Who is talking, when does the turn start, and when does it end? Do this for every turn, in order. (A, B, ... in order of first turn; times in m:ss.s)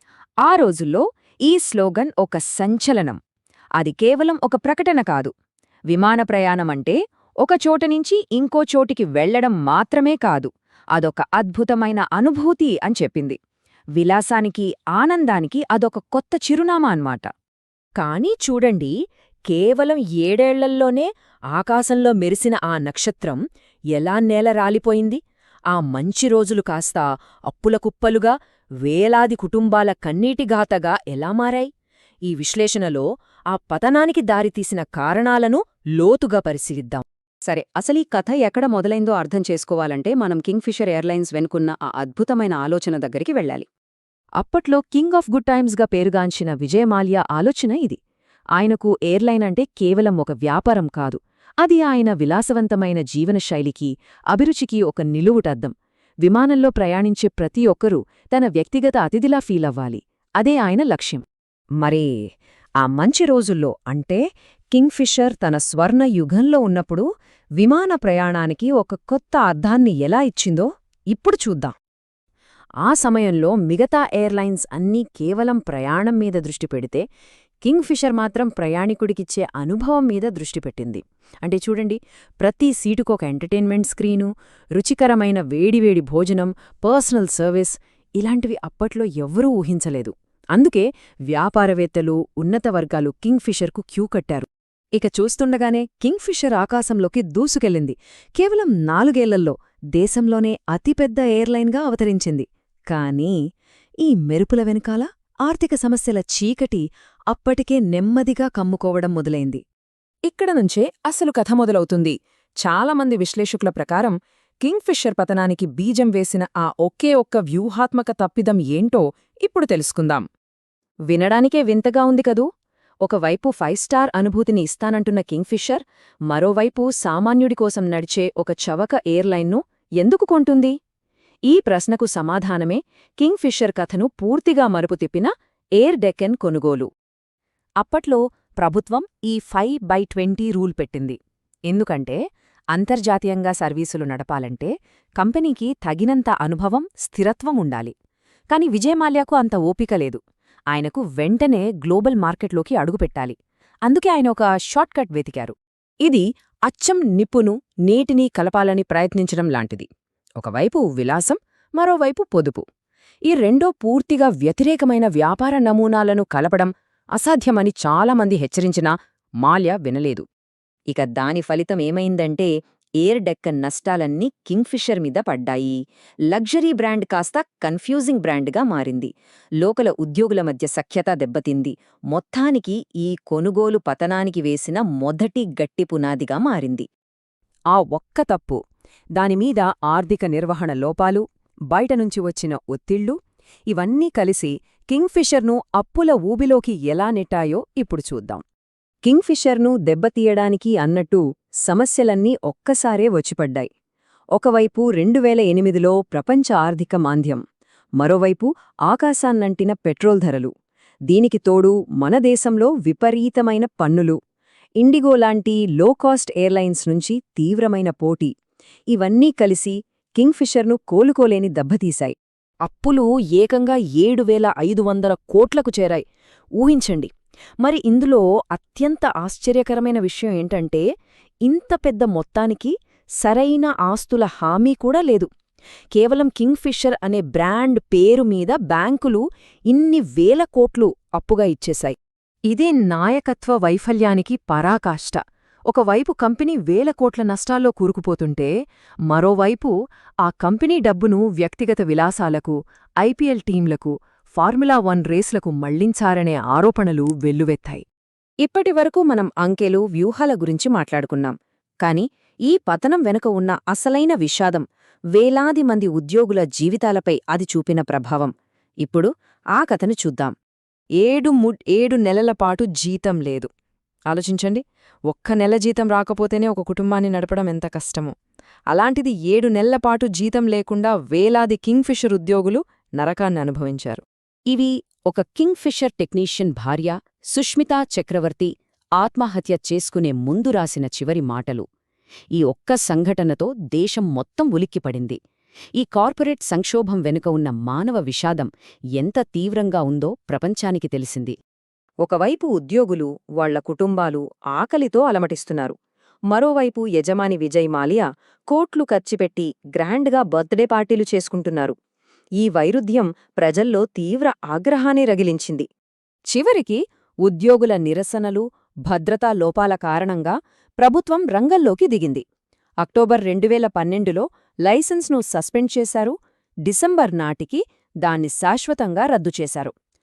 0:00.4-0:03.2 A
0:03.8-0:05.3 A
0:05.9-0:13.4 A
0:14.0-0:17.2 A
0:18.0-0:18.9 A
0:19.5-0:23.4 A
0:23.9-0:25.2 A
0:25.7-0:31.7 A
0:32.3-0:43.6 A
0:44.4-0:48.0 A
0:48.6-1:01.2 A
1:01.8-1:02.1 A
1:02.8-1:04.2 A
1:04.7-1:07.0 A
1:07.6-1:11.7 A
1:12.8-1:17.0 A
1:17.6-1:43.3 A
1:44.0-1:49.6 A
1:50.3-2:00.2 A
2:01.1-2:02.5 A
2:03.0-2:10.7 A
2:11.5-2:16.9 A
2:17.8-2:21.2 A
2:21.7-2:22.2 A
2:22.7-2:27.9 A
2:28.5-2:30.2 A
2:30.7-2:33.3 A
2:33.9-2:39.8 A
2:40.4-2:42.6 A
2:43.3-2:50.2 A
2:50.9-2:52.5 A
2:53.0-2:55.8 A
2:56.3-2:59.1 A
2:59.6-3:06.9 A
3:07.7-3:08.6 A
3:09.2-3:13.2 A
3:13.7-3:18.4 A
3:19.0-3:23.7 A
3:24.4-3:27.4 A
3:28.0-3:30.5 A
3:31.1-3:34.2 A
3:34.8-3:38.3 A
3:38.9-3:42.1 A
3:42.6-3:46.0 A
3:46.6-3:47.1 A
3:47.6-3:50.8 A
3:51.4-3:55.3 A
3:55.9-4:02.0 A
4:02.5-4:08.5 A
4:09.1-4:09.7 A
4:10.2-4:17.8 A
4:18.4-4:24.6 A
4:25.2-4:28.3 A
4:28.8-4:30.3 A
4:31.0-4:33.5 A
4:34.1-4:38.1 A
4:38.7-4:51.6 A
4:52.3-4:55.2 A
4:55.8-5:01.4 A
5:02.0-5:05.7 A
5:06.3-5:11.7 A
5:12.4-5:15.7 A
5:16.3-5:22.2 A
5:22.8-5:26.1 A
5:26.6-5:29.7 A